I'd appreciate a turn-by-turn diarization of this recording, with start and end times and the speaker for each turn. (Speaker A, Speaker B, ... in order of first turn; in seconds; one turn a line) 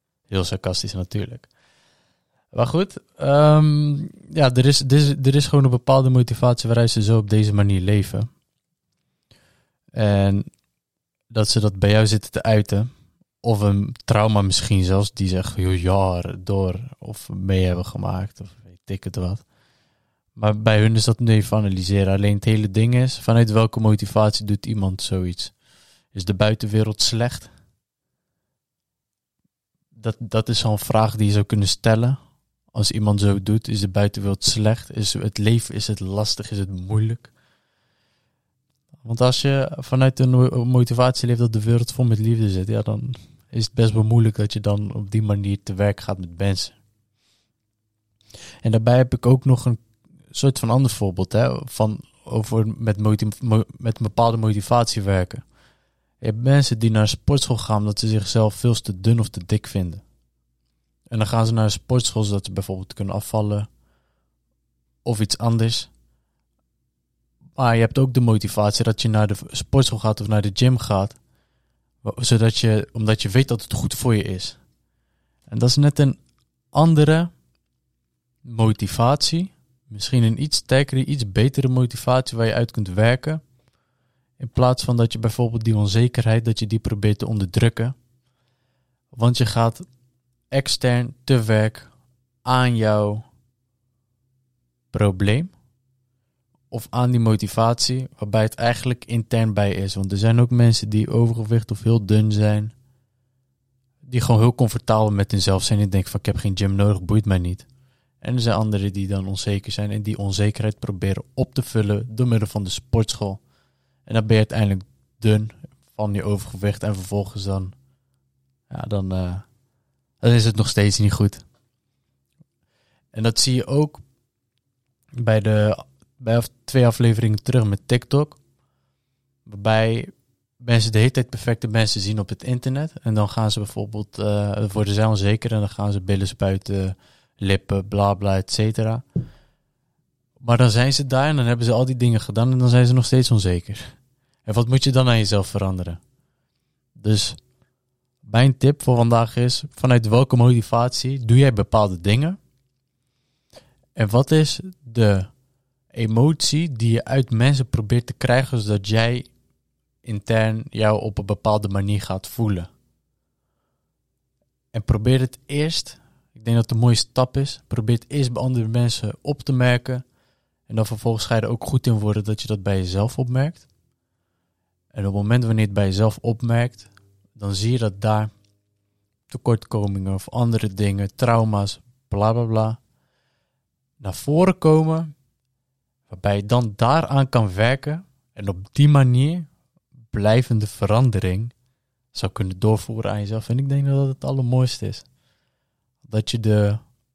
Speaker A: 0.3-1.5
Speaker A: 2.5-8.3
Speaker A: 9.9-10.5
Speaker A: 11.3-12.9
Speaker A: 13.4-19.4
Speaker A: 20.4-25.5
Speaker A: 26.1-27.5
Speaker A: 29.9-32.2
Speaker A: 32.7-37.3
Speaker A: 39.0-46.8
Speaker A: 48.6-55.4
Speaker A: 56.2-60.0
Speaker A: 61.1-63.7
Speaker A: 65.0-65.9
Speaker A: 67.5-71.2
Speaker A: 72.0-74.6
Speaker A: 75.5-76.2
Speaker A: 76.7-77.3
Speaker A: 78.4-83.4
Speaker A: 84.4-87.9
Speaker A: 89.1-89.8
Speaker A: 90.5-91.9
Speaker A: 92.4-93.3
Speaker A: 94.9-95.5
Speaker A: 96.7-102.7
Speaker A: 104.0-107.7
Speaker A: 108.2-113.4
Speaker A: 114.0-117.7
Speaker A: 118.7-119.4
Speaker A: 120.2-121.4
Speaker A: 123.1-124.0
Speaker A: 125.2-128.4
Speaker A: 129.4-139.0
Speaker A: 140.4-143.9
Speaker A: 144.4-146.0
Speaker A: 146.9-147.4
Speaker A: 148.2-152.4
Speaker A: 153.9-155.3
Speaker A: 155.9-159.3
Speaker A: 160.0-162.7
Speaker A: 164.7-170.0
Speaker A: 170.7-173.7
Speaker A: 174.9-178.3
Speaker A: 179.3-182.8
Speaker A: 184.0-185.1
Speaker A: 186.1-189.5
Speaker A: 190.1-191.5
Speaker A: 192.1-195.0
Speaker A: 196.0-196.8